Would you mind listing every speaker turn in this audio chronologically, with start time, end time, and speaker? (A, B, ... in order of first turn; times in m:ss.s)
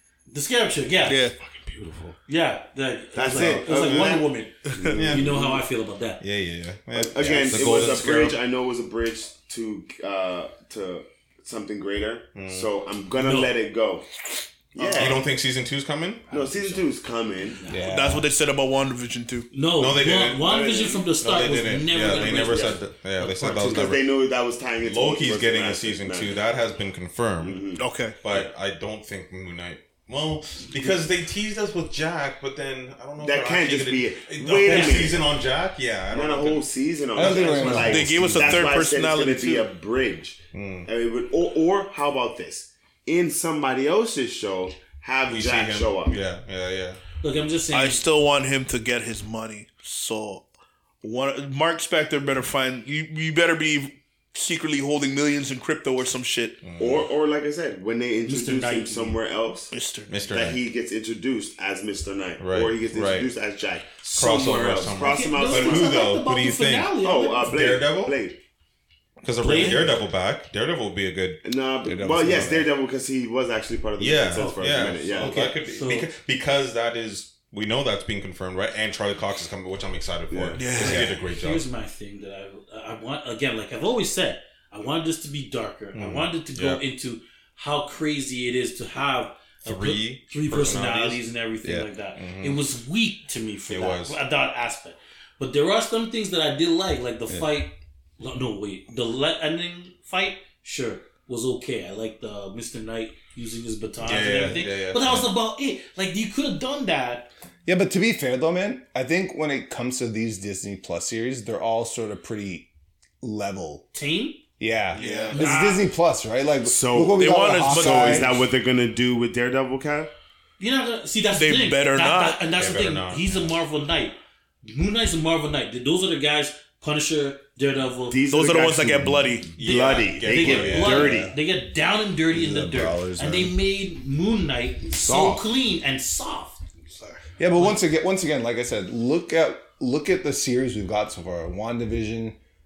0:00.3-0:01.3 A
0:01.1-0:01.4 B
0:01.4-0:02.2 C
0:02.3-0:06.2 A
0:03.1-0:05.6 C
0:03.3-0:04.2 D
0:04.7-0:05.0 B
0:04.9-0:05.4 D
0:06.2-0:08.4 D
0:06.9-0:14.0 C
0:07.2-0:07.7 E
0:12.3-0:12.7 D
0:13.2-0:13.5 A
0:14.7-0:15.3 C
0:14.9-0:16.3 D
0:16.3-0:17.6 C
0:16.3-0:16.8 A
0:17.4-0:18.0 A
0:17.7-0:18.3 E
0:17.8-0:19.5 B
0:19.5-0:23.9 A
0:19.8-0:20.6 D
0:20.4-0:21.0 C
0:21.2-0:24.0 D
0:22.1-0:22.8 C
0:23.4-0:26.4 C
0:24.8-0:27.6 D
0:27.4-0:28.5 C
0:27.8-0:28.2 B
0:28.2-0:36.6 D
0:33.2-0:35.3 C
0:34.7-0:35.1 A
0:36.1-0:46.2 C
0:37.1-0:38.7 E
0:37.2-0:37.8 D
0:37.6-0:37.9 A
0:37.8-0:39.7 B
0:40.5-0:40.9 D
0:45.3-0:47.0 D
0:47.2-0:48.0 A
0:47.7-0:50.4 B
0:51.0-0:56.6 B
0:56.6-0:57.1 D
0:56.8-0:59.7 C
0:58.2-0:59.2 A
0:59.7-1:00.2 B
1:00.1-1:00.6 D
1:00.3-1:06.0 C
1:02.4-1:03.3 D
1:04.0-1:08.2 D
1:05.0-1:07.6 A
1:07.0-1:08.4 C
1:09.2-1:11.4 D
1:09.4-1:10.0 A
1:11.4-1:15.5 C
1:11.8-1:12.7 E
1:14.0-1:21.6 D
1:14.3-1:16.1 A
1:20.3-1:21.1 C
1:20.6-1:21.1 B
1:21.3-1:47.3 A
1:25.9-1:26.8 D
1:29.6-1:31.2 D
1:32.2-1:32.6 D
1:33.7-1:34.2 D
1:44.0-1:45.3 D
1:47.6-1:52.7 E
1:53.2-1:53.8 E
1:53.9-1:54.4 A
1:54.6-1:58.4 E
1:54.9-1:55.4 D
1:55.0-1:55.4 B
1:55.3-1:55.9 A
1:56.6-2:00.1 C
1:57.2-1:58.5 B
2:00.6-2:08.2 A
2:01.4-2:02.4 B
2:02.5-2:03.5 D
2:08.1-2:11.3 C
2:08.3-2:09.6 B
2:09.6-2:11.1 D
2:10.2-2:16.6 A
2:10.9-2:11.3 E
2:12.3-2:13.5 E
2:15.0-2:15.4 C
2:16.9-2:17.2 B
2:17.4-2:22.4 E